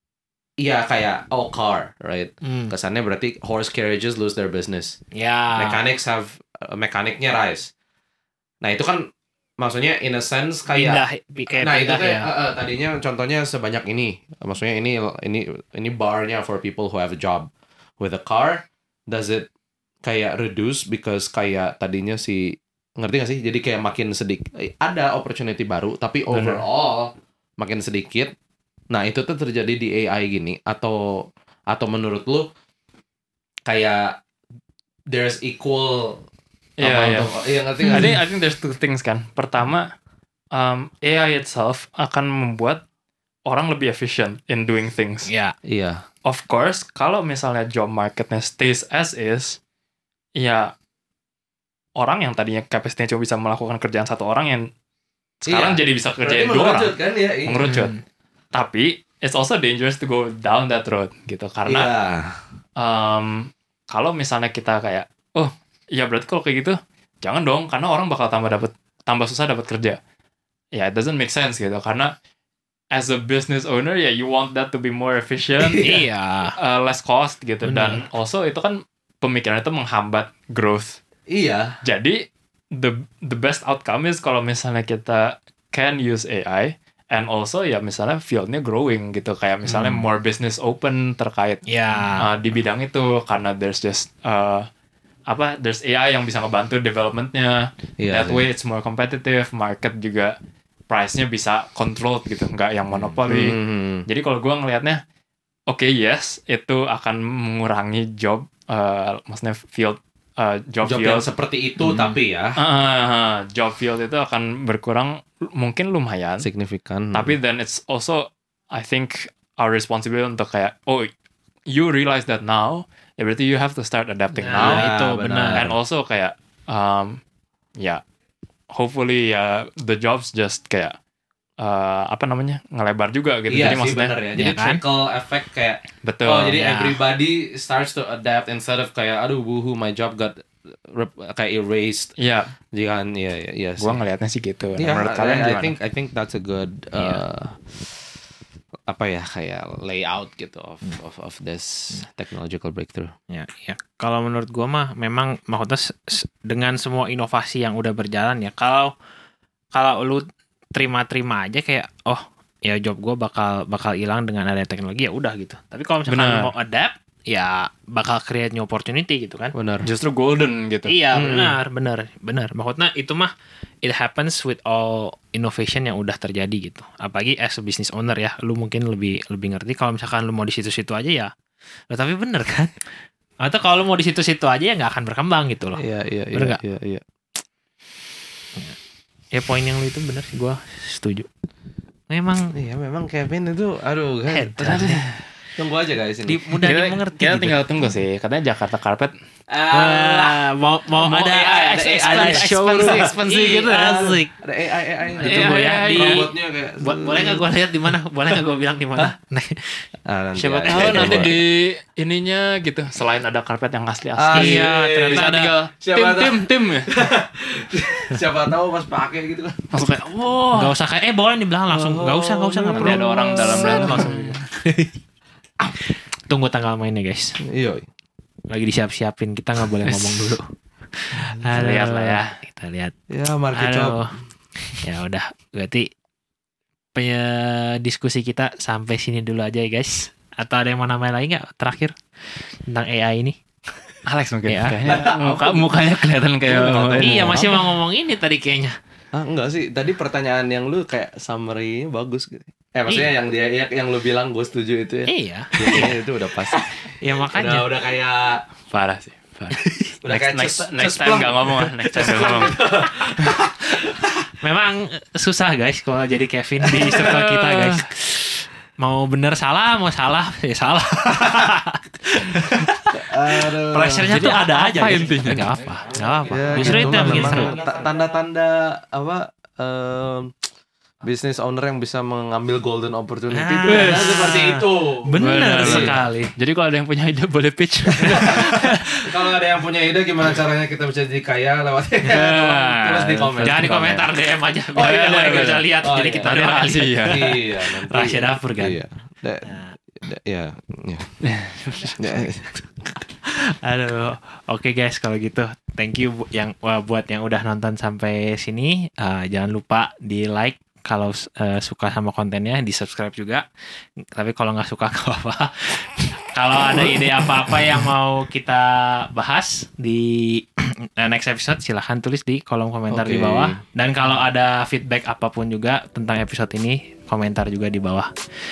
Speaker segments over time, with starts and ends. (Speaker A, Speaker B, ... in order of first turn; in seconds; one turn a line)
Speaker A: 0.6-5.0
Speaker B: 2.4-2.7
Speaker B: 5.1-5.8
Speaker A: 5.6-7.7
Speaker A: 8.6-9.1
Speaker A: 9.6-11.0
Speaker B: 10.7-12.3
Speaker A: 11.6-17.5
Speaker A: 18.0-19.5
Speaker A: 20.1-28.3
Speaker C: 26.3-26.6
Speaker A: 28.9-32.5
Speaker A: 33.7-34.2
Speaker A: 35.1-36.3
Speaker C: 36.8-37.3
Speaker A: 36.8-38.1
Speaker C: 37.9-39.9
Speaker C: 40.5-42.8
Speaker C: 43.5-45.3
Speaker B: 45.3-45.6
Speaker A: 45.6-46.0
Speaker C: 46.2-49.6
Speaker C: 50.4-50.7
Speaker C: 52.0-54.7
Speaker C: 55.4-57.9
Speaker A: 55.5-57.6
Speaker B: 57.6-58.0
Speaker C: 58.5-61.9
Speaker A: 61.7-62.4
Speaker C: 62.8-70.0
Speaker C: 70.7-72.1
Speaker C: 72.9-76.0
Speaker B: 75.8-76.6
Speaker C: 76.6-81.0
Speaker B: 77.6-78.0
Speaker A: 81.3-81.7
Speaker C: 81.8-82.2
Speaker C: 82.7-91.6
Speaker B: 89.7-90.0
Speaker B: 91.7-92.3
Speaker C: 92.2-94.7
Speaker C: 95.3-100.3
Speaker A: 98.0-98.4
Speaker C: 100.9-105.0
Speaker A: 103.3-104.1
Speaker C: 105.7-111.3
Speaker A: 110.8-112.6
Speaker B: 111.8-112.1
Speaker C: 112.6-116.5
Speaker A: 116.4-117.3
Speaker C: 117.1-121.1
Speaker C: 121.7-124.9
Speaker B: 124.4-125.7
Speaker A: 124.5-125.7
Speaker C: 125.6-127.2
Speaker C: 128.7-131.0
Speaker C: 131.6-134.2
Speaker A: 133.5-142.1
Speaker B: 134.4-134.8
Speaker C: 136.0-136.6
Speaker B: 136.6-137.0
Speaker C: 142.2-142.5
Speaker A: 142.7-144.0
Speaker C: 143.8-145.7
Speaker A: 144.8-147.6
Speaker A: 148.9-153.1
Speaker B: 153.3-158.9
Speaker B: 159.7-169.6
Speaker C: 166.1-166.5
Speaker A: 169.6-169.9
Speaker C: 169.8-170.9
Speaker B: 170.9-173.3
Speaker A: 171.1-171.6
Speaker B: 173.8-181.3
Speaker B: 181.9-182.8
Speaker B: 183.4-185.8
Speaker A: 185.8-187.0
Speaker B: 186.3-186.6
Speaker B: 189.3-191.3
Speaker B: 192.1-192.5
Speaker A: 192.5-196.6
Speaker B: 194.3-195.0
Speaker C: 194.7-194.9
Speaker B: 196.3-197.6
Speaker C: 196.6-199.1
Speaker A: 199.5-200.4
Speaker B: 199.7-204.3
Speaker A: 200.9-207.4
Speaker C: 202.0-203.1
Speaker B: 205.2-209.9
Speaker C: 205.2-206.3
Speaker A: 210.1-211.3
Speaker C: 210.4-216.9
Speaker B: 210.7-211.3
Speaker A: 214.2-219.8
Speaker B: 214.3-215.5
Speaker C: 219.7-220.7
Speaker B: 220.5-224.9
Speaker A: 221.7-224.0
Speaker C: 222.7-224.4
Speaker B: 225.9-227.4
Speaker A: 227.4-227.9
Speaker B: 228.5-230.4
Speaker C: 229.8-230.3
Speaker B: 230.9-232.9
Speaker C: 231.6-232.3
Speaker A: 233.1-234.1
Speaker B: 233.6-234.1
Speaker B: 234.7-235.9
Speaker B: 236.9-243.8
Speaker C: 244.1-247.6
Speaker B: 244.5-245.0
Speaker A: 244.8-245.7
Speaker A: 246.4-247.6
Speaker B: 247.0-248.8
Speaker A: 249.1-258.4
Speaker B: 255.1-257.7
Speaker C: 258.7-262.6
Speaker B: 259.5-259.9
Speaker A: 260.0-264.1
Speaker B: 262.1-262.9
Speaker B: 264.4-277.6
Speaker C: 266.8-267.8
Speaker A: 271.2-271.5
Speaker A: 272.9-274.1
Speaker C: 274.1-275.5
Speaker A: 276.3-280.3
Speaker C: 276.5-277.5
Speaker A: 281.0-285.9
Speaker B: 283.3-286.3
Speaker C: 283.7-284.4
Speaker C: 285.2-288.8
Speaker A: 288.1-293.7
Speaker C: 292.1-294.1
Speaker B: 293.4-298.8
Speaker C: 294.8-295.7
Speaker A: 294.8-301.1
Speaker C: 296.2-297.2
Speaker B: 299.4-299.7
Speaker C: 301.2-302.0
Speaker A: 302.0-302.7
Speaker B: 303.3-313.4
Speaker B: 314.1-328.1
Speaker A: 322.9-323.6